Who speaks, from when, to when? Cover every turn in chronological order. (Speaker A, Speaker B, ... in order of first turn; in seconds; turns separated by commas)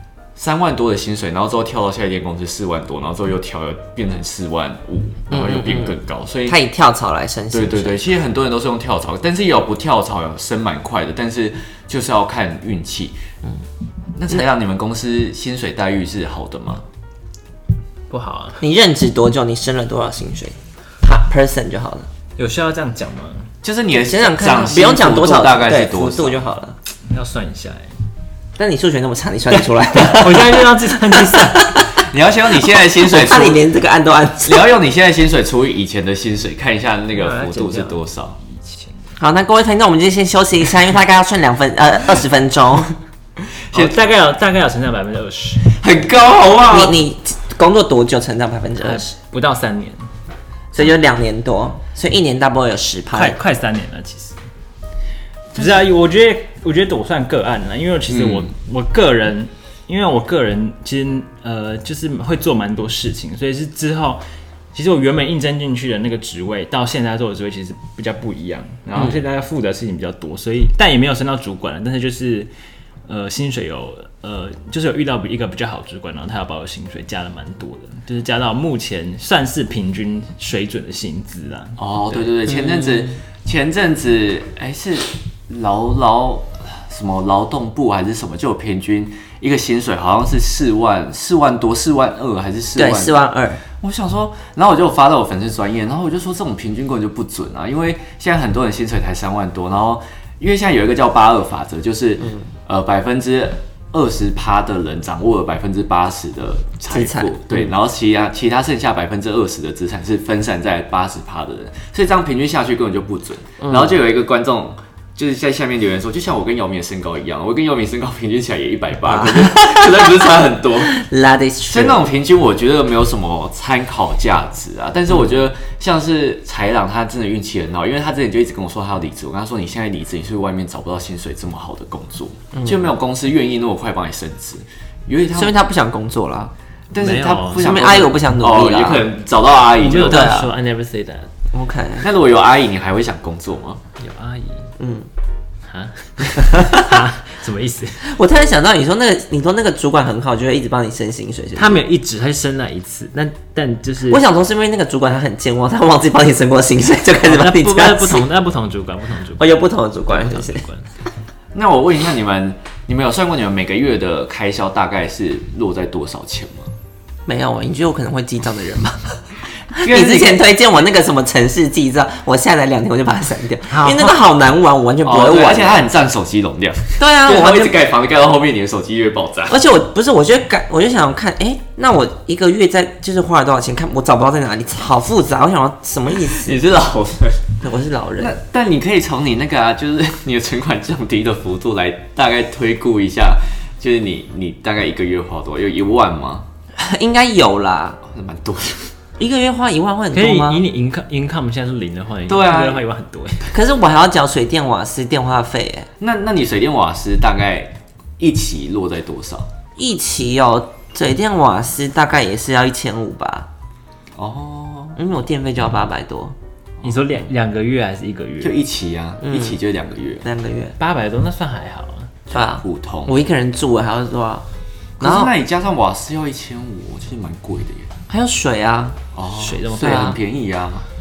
Speaker A: 0.3-6.6, Speaker B: 5.3-8.0, Speaker A: 7.5-13.2, Speaker A: 14.2-16.8, Speaker C: 18.1-18.6, Speaker B: 18.6-22.1, Speaker C: 22.4-23.5, Speaker A: 23.6-26.4, Speaker B: 23.9-26.8, Speaker C: 27.1-27.9, Speaker B: 28.6-32.0, Speaker C: 29.5-31.9, Speaker A: 32.0-33.6, Speaker B: 32.6-34.6, Speaker A: 34.4-38.4, Speaker C: 37.1-39.1, Speaker B: 39.2-42.9, Speaker A: 43.7-44.0, Speaker C: 43.7-45.7, Speaker A: 45.6-47.0, Speaker B: 46.6-49.1, Speaker C: 48.8-50.0, Speaker B: 50.7-53.4, Speaker C: 53.1-54.4, Speaker C: 55.5-64.2, Speaker A: 58.1-58.5, Speaker C: 64.7-72.5, Speaker C: 73.1-82.2, Speaker A: 81.8-93.2, Speaker B: 82.5-83.1, Speaker B: 92.8-93.6, Speaker A: 93.8-121.0, Speaker B: 106.9-107.7, Speaker B: 113.6-114.0, Speaker B: 119.0-120.3, Speaker B: 120.8-122.0, Speaker A: 121.7-135.5, Speaker B: 125.1-125.3, Speaker B: 132.5-132.9, Speaker B: 135.3-136.5, Speaker A: 136.9-140.3, Speaker C: 137.0-137.7, Speaker B: 137.6-139.1, Speaker C: 139.8-141.3, Speaker B: 140.0-140.5, Speaker B: 141.5-142.1, Speaker A: 142.0-143.8, Speaker C: 144.0-144.7, Speaker B: 144.8-145.1, Speaker C: 145.7-148.1, Speaker B: 146.4-146.8, Speaker B: 148.0-151.8, Speaker C: 151.6-154.2, Speaker B: 154.1-158.2, Speaker C: 157.2-160.9, Speaker B: 159.4-160.6, Speaker A: 161.5-166.7, Speaker B: 167.2-169.2, Speaker A: 169.7-170.5, Speaker B: 169.7-175.9, Speaker C: 173.7-174.1, Speaker A: 175.0-179.6, Speaker B: 177.0-177.8, Speaker B: 179.5-186.6, Speaker A: 186.3-187.6, Speaker B: 187.6-188.3, Speaker A: 188.2-196.5, Speaker B: 196.8-198.0, Speaker A: 198.1-198.9, Speaker B: 199.2-200.6, Speaker C: 200.1-203.5, Speaker A: 202.3-202.8, Speaker B: 203.5-205.9, Speaker A: 206.0-209.5, Speaker B: 209.8-213.5, Speaker A: 214.2-215.0, Speaker B: 214.9-216.3, Speaker C: 216.8-218.6, Speaker A: 218.4-220.2, Speaker B: 219.2-219.6, Speaker B: 220.2-220.8, Speaker C: 220.8-222.1, Speaker B: 222.3-224.4, Speaker A: 222.3-223.2, Speaker A: 225.0-227.9, Speaker B: 225.0-225.3, Speaker B: 228.1-229.0, Speaker A: 229.1-230.8, Speaker C: 229.3-230.1, Speaker B: 229.8-230.2